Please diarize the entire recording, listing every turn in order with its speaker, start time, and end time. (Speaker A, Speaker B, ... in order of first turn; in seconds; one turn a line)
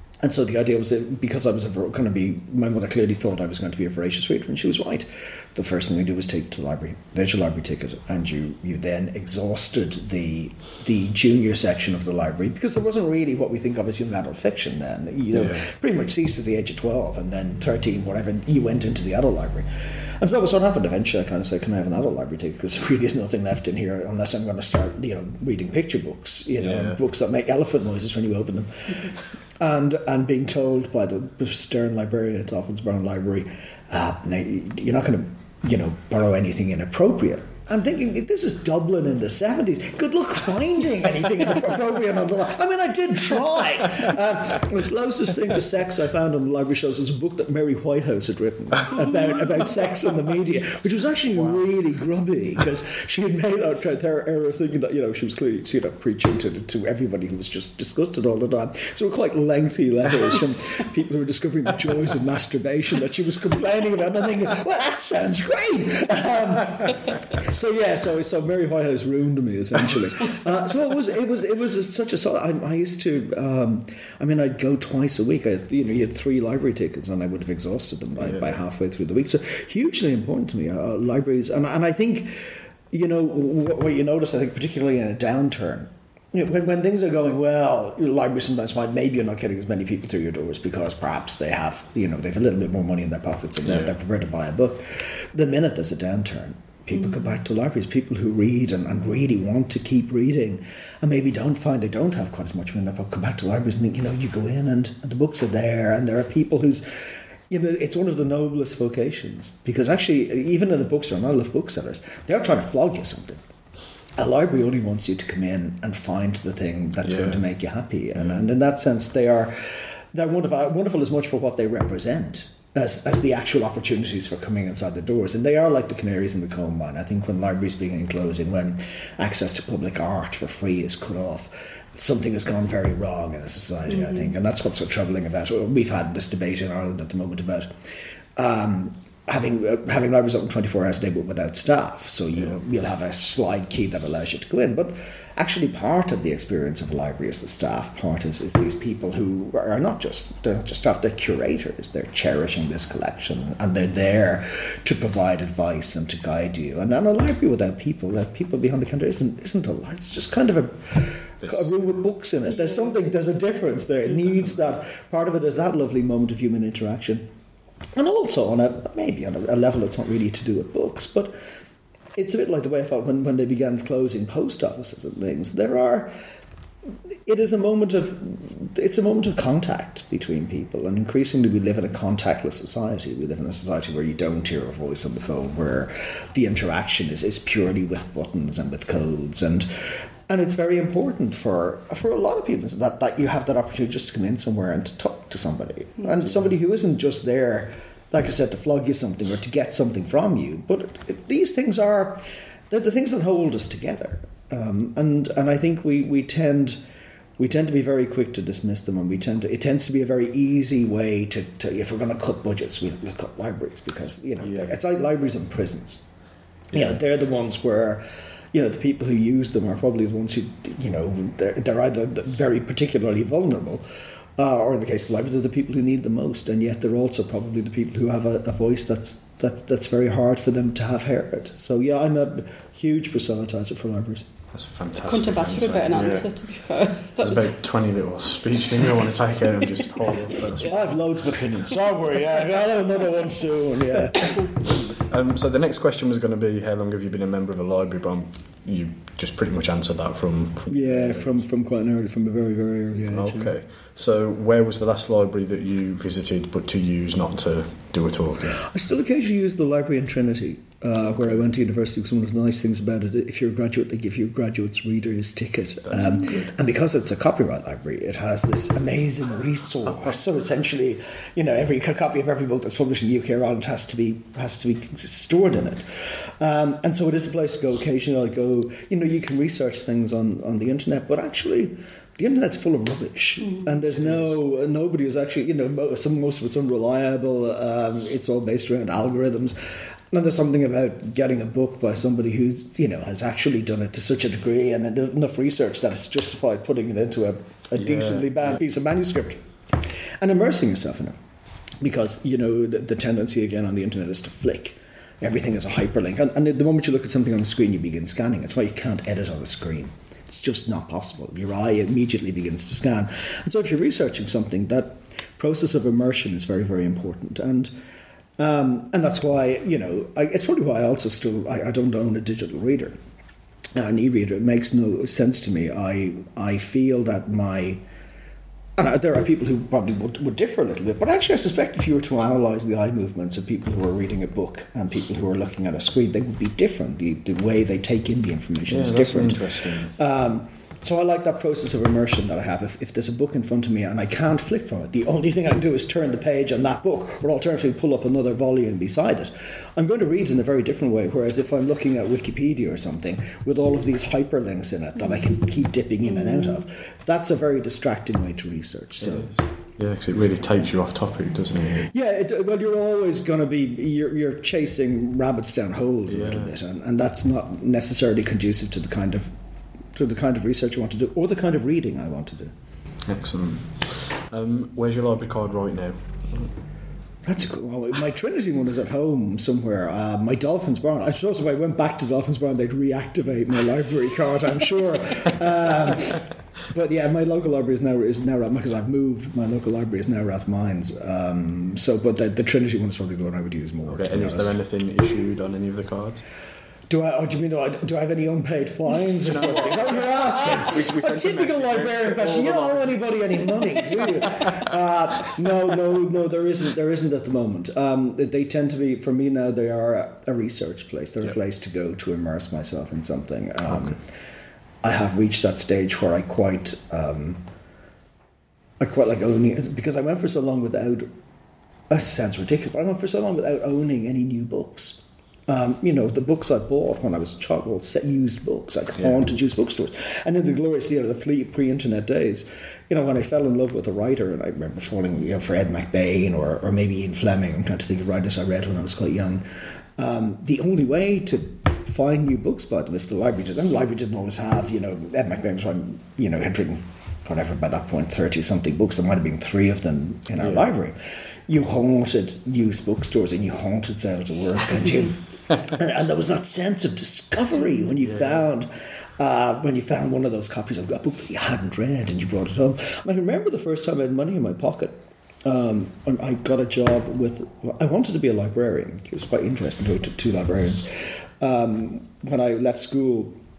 Speaker A: 0.2-106.8
Speaker B: 15.3-15.7
Speaker B: 26.6-27.0
Speaker B: 78.2-78.6
Speaker B: 93.7-93.9
Speaker A: 107.5-113.4
Speaker A: 114.2-167.2
Speaker B: 117.0-117.4
Speaker C: 133.9-134.3
Speaker B: 161.4-161.9
Speaker A: 168.0-171.3
Speaker A: 172.2-176.1
Speaker A: 177.2-206.8
Speaker A: 207.4-216.0
Speaker B: 214.4-214.7
Speaker B: 216.7-217.0
Speaker A: 216.7-223.8
Speaker A: 224.4-234.3
Speaker B: 234.5-236.3
Speaker C: 235.1-237.5
Speaker B: 237.2-241.0
Speaker A: 240.5-244.5
Speaker B: 244.9-251.4
Speaker A: 250.7-253.5
Speaker B: 253.1-258.6
Speaker A: 258.5-289.6
Speaker B: 261.1-261.4
Speaker B: 265.9-266.5
Speaker B: 283.9-284.4
Speaker A: 290.1-301.2
Speaker B: 297.8-298.6
Speaker A: 301.8-317.7
Speaker A: 318.4-323.0
Speaker A: 323.8-327.8
Speaker A: 328.8-359.3
Speaker B: 338.7-339.9
Speaker B: 359.0-361.9
Speaker A: 361.9-369.4
Speaker B: 366.1-366.6
Speaker A: 369.9-372.5
Speaker B: 373.1-376.5
Speaker A: 377.2-394.6
Speaker B: 393.9-396.2
Speaker A: 396.9-414.1
Speaker B: 399.1-404.7
Speaker B: 413.7-414.0
Speaker A: 414.8-417.4
Speaker A: 418.8-421.1
Speaker A: 421.9-451.0
Speaker B: 450.4-450.7
Speaker A: 451.5-473.4
Speaker B: 458.0-458.4